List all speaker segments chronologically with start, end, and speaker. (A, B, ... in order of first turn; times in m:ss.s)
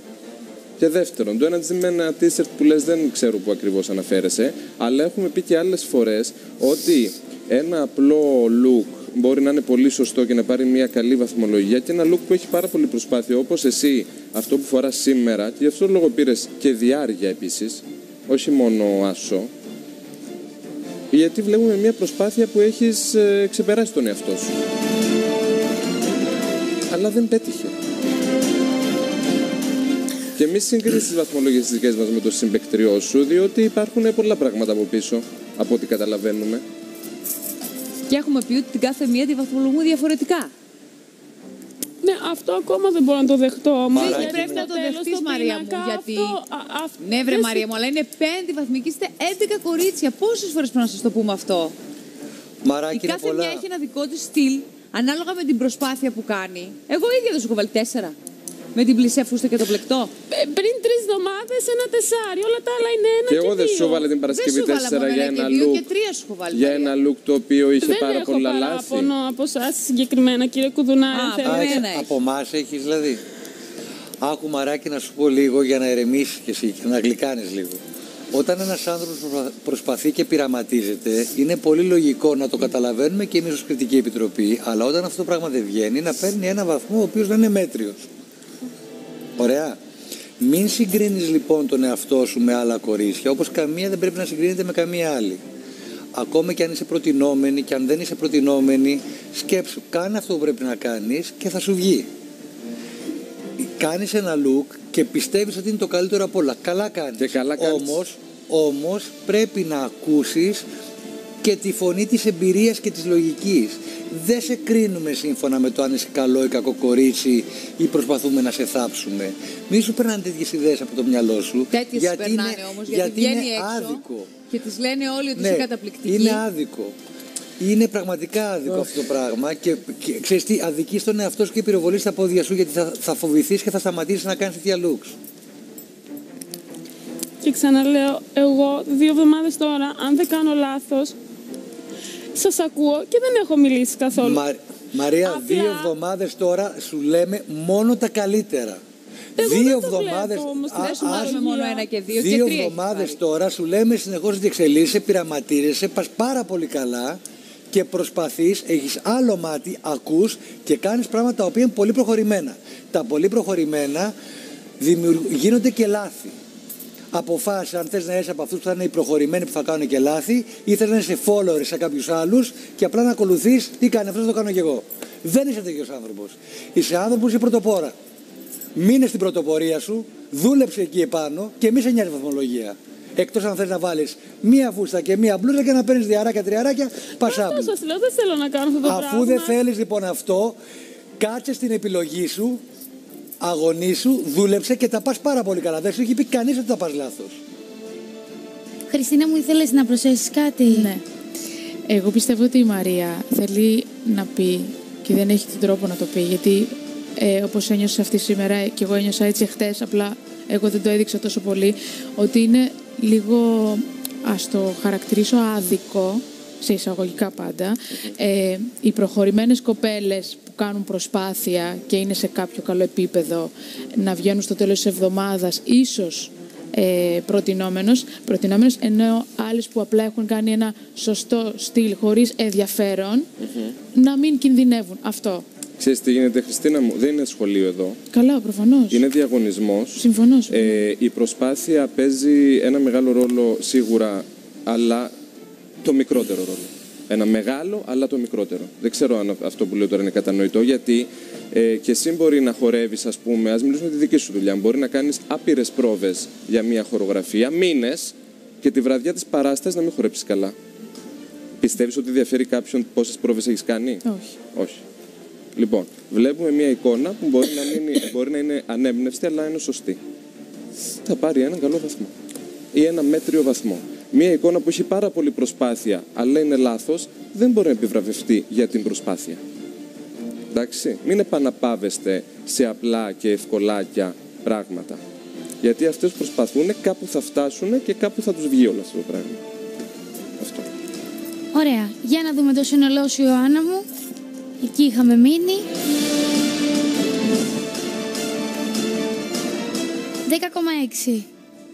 0:00.8-0:19.5 A
0:21.1-0:24.6 A
0:26.9-0:27.7 A
0:30.4-0:36.6 A
0:38.1-0:40.5 B
0:42.0-0:47.8 C
0:43.9-0:44.7 D
0:44.0-0:46.4 B
0:47.0-0:51.8 B
0:52.6-0:53.6 D
0:52.9-0:58.2 B
0:58.8-1:00.1 B
1:00.3-1:04.1 C
1:03.3-1:05.9 A
1:04.2-1:07.0 B
1:06.5-1:09.1 A
1:07.8-1:11.8 C
1:11.1-1:12.1 B
1:11.4-1:13.2 D
1:14.2-1:17.8 D
1:18.3-1:28.0 D
1:29.4-1:29.8 D
1:30.4-1:35.4 D
1:36.1-1:42.1 D
1:43.6-1:50.6 D
1:47.2-1:48.0 A
1:51.4-2:04.3 D
2:01.7-2:06.4 B
2:05.4-2:06.9 D
2:07.6-2:15.1 D
2:17.4-2:21.2 C
2:22.4-2:24.4 C
2:24.2-2:28.8 D
2:25.2-2:25.9 C
2:29.4-2:31.4 D
2:29.4-2:31.9 C
2:30.8-2:33.2 B
2:32.1-2:44.1 D
2:44.8-2:46.4 D
2:47.1-2:58.0 D
2:58.8-3:07.7 D
3:07.2-3:09.6 C
3:08.8-3:10.6 D
3:11.2-3:12.6 D
3:13.4-3:17.4 D
3:18.9-3:20.9 E
3:20.7-3:21.0 F
3:21.9-3:53.3 F
3:53.5-3:53.7 A
3:53.9-3:55.5 F
3:55.8-3:58.0 A
3:58.1-3:59.0 F
3:58.9-4:05.1 A
4:00.0-4:00.8 F
4:05.8-4:20.6 A
4:21.6-4:24.8 A
4:24.0-4:24.4 F
4:25.6-4:30.0 A
4:31.1-4:32.1 A
4:32.7-4:39.4 A
4:40.5-4:45.0 A
4:45.6-4:49.4 A
4:50.4-4:50.7 A
4:51.5-4:53.9 E
4:54.6-4:55.7 E
5:00.3-5:01.3 E